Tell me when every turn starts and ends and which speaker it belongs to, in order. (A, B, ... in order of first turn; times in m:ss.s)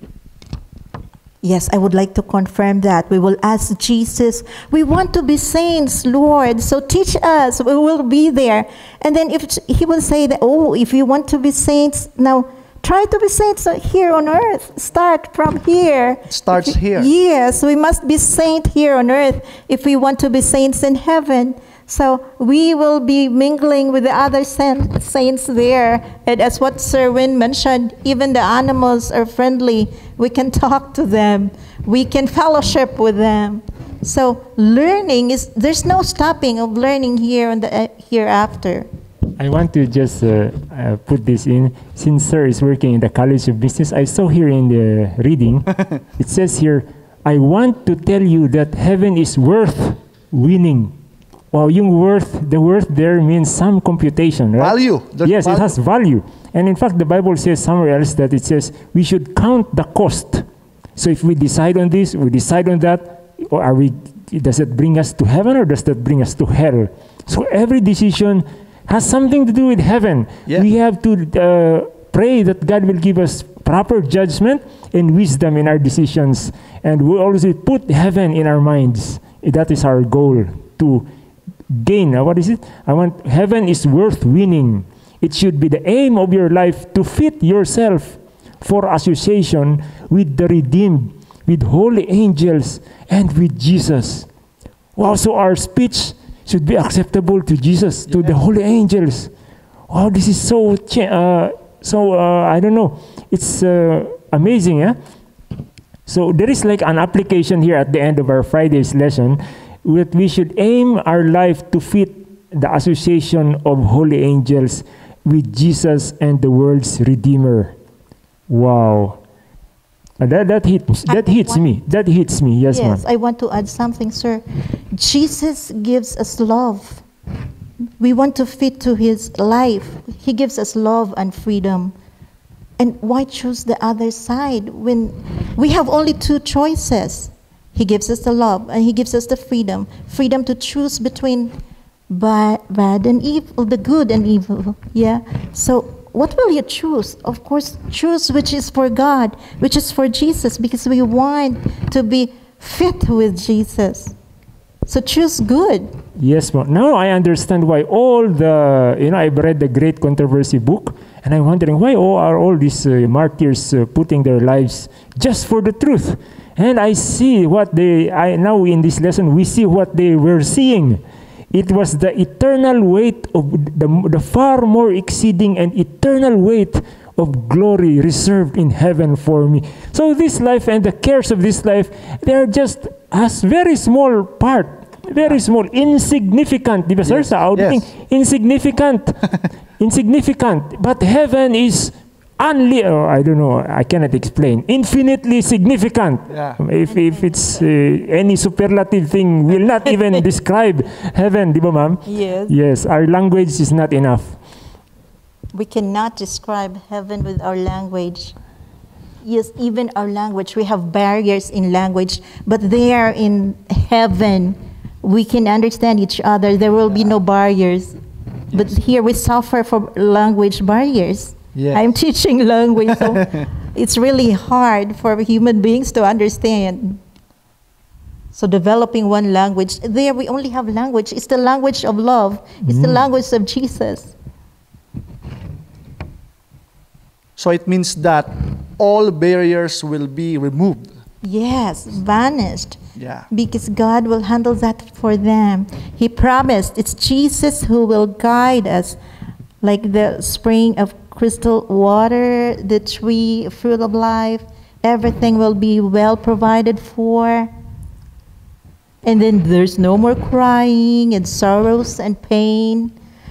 0:01.4-0:38.9 A
0:16.3-0:17.1 B
0:39.4-0:50.9 C
0:51.5-1:00.4 C
0:54.6-0:55.7 B
1:01.0-1:21.1 C
1:21.7-1:34.3 C
1:35.0-1:39.3 C
1:38.1-1:38.4 B
1:39.9-1:45.0 C
1:46.1-1:57.8 C
1:58.5-1:59.2 C
2:00.2-2:03.0 C
2:01.1-2:01.6 A
2:02.7-2:07.0 A
2:08.0-2:11.9 A
2:12.8-2:21.5 A
2:22.1-2:34.1 A
2:34.8-2:35.9 A
2:36.2-2:51.0 C
2:51.5-3:09.3 C
3:07.0-3:07.9 B
3:09.8-3:24.4 C
3:16.3-3:16.6 B
3:17.0-3:17.4 A
3:22.0-3:22.5 A
3:25.5-3:28.4 A
3:29.2-3:38.0 A
3:38.5-3:47.0 A
3:41.5-3:41.9 B
3:42.9-3:43.4 B
3:48.3-3:54.1 A
3:52.6-3:53.0 C
3:57.4-4:00.9 B
4:01.2-4:02.8 A
4:03.0-4:03.3 B
4:03.3-4:09.0 A
4:09.6-4:17.5 A
4:19.0-4:22.9 A